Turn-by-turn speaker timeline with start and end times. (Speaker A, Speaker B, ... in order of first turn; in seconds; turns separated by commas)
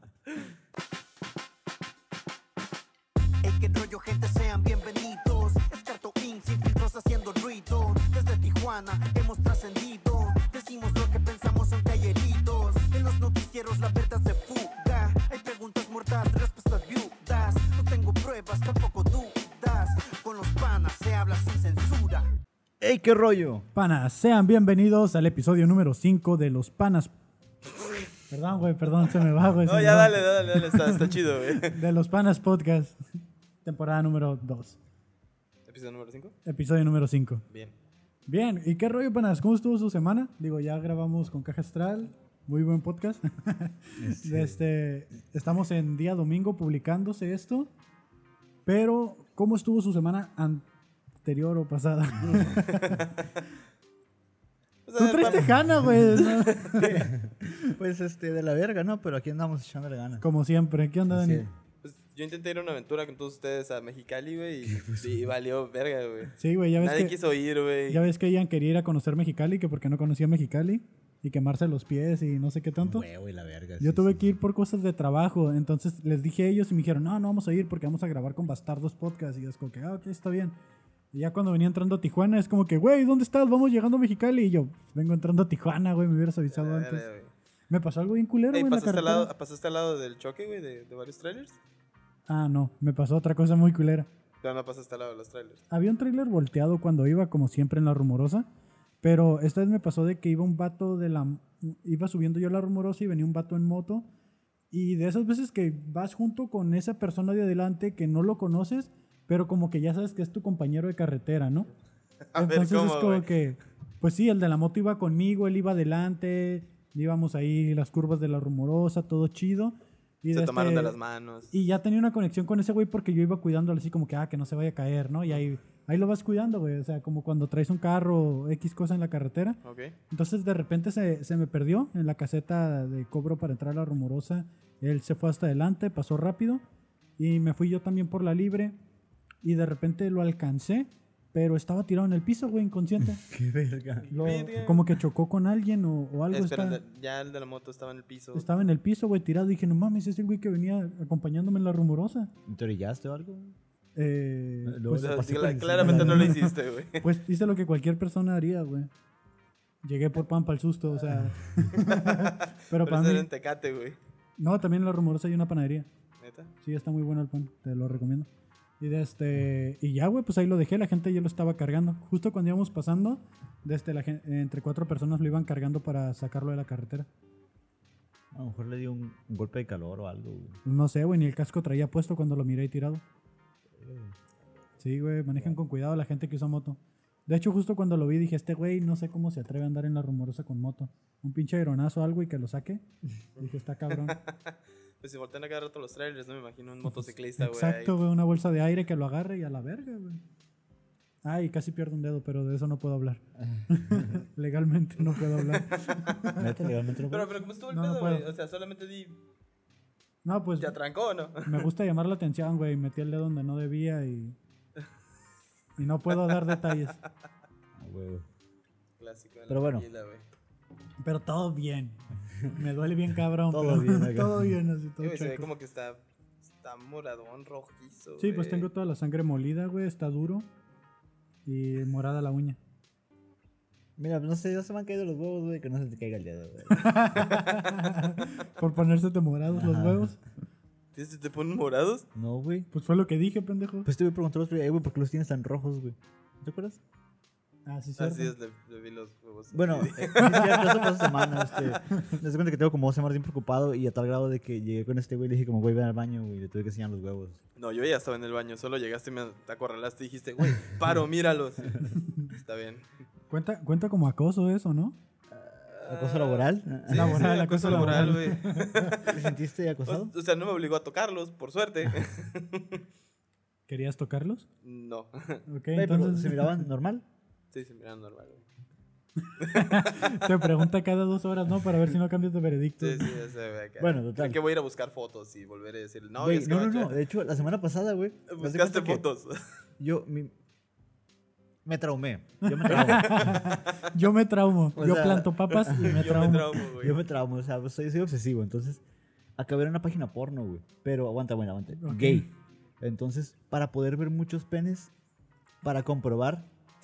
Speaker A: 3.4-22.3, Speaker B: 22.8-23.7, Speaker C: 23.8-27.1, Speaker C: 28.3-31.1, Speaker D: 29.7-31.8, Speaker C: 31.6-33.0, Speaker C: 33.6-34.8, Speaker D: 35.7-36.4, Speaker C: 36.5-37.4, Speaker C: 38.3-47.7, Speaker B: 44.0-44.6, Speaker C: 48.7-50.7, Speaker C: 51.2-53.0, Speaker D: 52.3-53.2, Speaker D: 54.9-55.6, Speaker C: 55.0-56.9, Speaker D: 56.1-57.0, Speaker B: 56.8-60.2, Speaker C: 60.2-61.5, Speaker B: 61.1-61.5, Speaker D: 61.8-68.0, Speaker B: 64.7-65.3, Speaker C: 66.4-67.2, Speaker C: 67.9-73.0, Speaker B: 72.8-74.3, Speaker C: 73.8-80.6, Speaker C: 81.1-87.1, Speaker D: 86.5-87.3, Speaker C: 87.7-89.3, Speaker D: 88.5-91.6, Speaker C: 92.3-94.1, Speaker D: 94.4-95.6, Speaker C: 95.7-98.5, Speaker C: 99.0-104.1, Speaker C: 104.7-111.7, Speaker D: 112.3-113.3, Speaker C: 112.3-121.0, Speaker D: 120.3-121.5, Speaker C: 121.5-136.6, Speaker D: 129.6-130.0, Speaker C: 137.2-138.8, Speaker C: 139.4-143.2, Speaker B: 143.0-144.1, Speaker D: 144.0-144.9, Speaker C: 144.1-146.8, Speaker D: 146.3-148.4, Speaker C: 148.3-152.3, Speaker B: 152.5-153.6, Speaker C: 154.0-158.9, Speaker B: 154.6-156.4, Speaker D: 155.0-157.1, Speaker C: 159.8-163.3, Speaker D: 161.8-164.0, Speaker C: 164.4-165.9, Speaker D: 166.2-166.5, Speaker C: 166.6-168.3, Speaker C: 168.8-177.1, Speaker B: 178.3-180.6, Speaker C: 180.7-183.0, Speaker B: 183.8-184.2, Speaker C: 184.8-192.9, Speaker C: 193.4-194.2, Speaker D: 193.4-198.0, Speaker C: 196.9-200.2, Speaker C: 201.2-206.5, Speaker B: 203.4-204.2, Speaker D: 205.1-206.0, Speaker B: 206.4-207.4, Speaker D: 207.1-209.2, Speaker C: 207.7-208.3, Speaker C: 210.2-210.8, Speaker D: 210.6-211.7, Speaker C: 211.4-214.4, Speaker C: 215.8-217.0, Speaker D: 216.2-216.8, Speaker B: 217.8-218.2, Speaker D: 219.0-220.3, Speaker B: 219.5-219.9, Speaker C: 221.0-225.5, Speaker B: 223.5-224.5, Speaker D: 225.0-226.0, Speaker D: 226.6-228.7, Speaker C: 228.2-230.5, Speaker C: 231.5-232.6, Speaker B: 234.0-236.9, Speaker C: 236.7-240.2, Speaker B: 239.5-240.1, Speaker D: 240.9-242.1, Speaker B: 242.2-242.7, Speaker C: 242.7-243.9, Speaker B: 243.9-246.8, Speaker C: 247.7-248.3, Speaker D: 248.0-250.9, Speaker B: 249.5-257.4, Speaker C: 250.2-250.6, Speaker D: 257.6-262.9, Speaker C: 261.9-262.3, Speaker C: 263.3-265.0, Speaker B: 265.3-268.2, Speaker D: 265.8-269.2, Speaker C: 266.9-269.0, Speaker B: 269.0-270.1, Speaker D: 269.9-272.8, Speaker C: 273.7-274.5, Speaker D: 274.6-275.4, Speaker C: 275.5-276.6, Speaker B: 275.7-277.1, Speaker D: 277.5-278.4, Speaker C: 279.2-283.1, Speaker D: 279.4-280.3, Speaker D: 282.8-287.0, Speaker B: 283.8-284.4, Speaker B: 286.2-289.0, Speaker D: 288.3-289.4, Speaker B: 289.8-290.3, Speaker B: 291.6-293.5, Speaker C: 292.4-296.6, Speaker D: 292.8-293.5, Speaker B: 294.8-298.8, Speaker D: 295.5-297.0, Speaker B: 299.4-304.9, Speaker C: 301.8-302.3, Speaker B: 305.6-306.5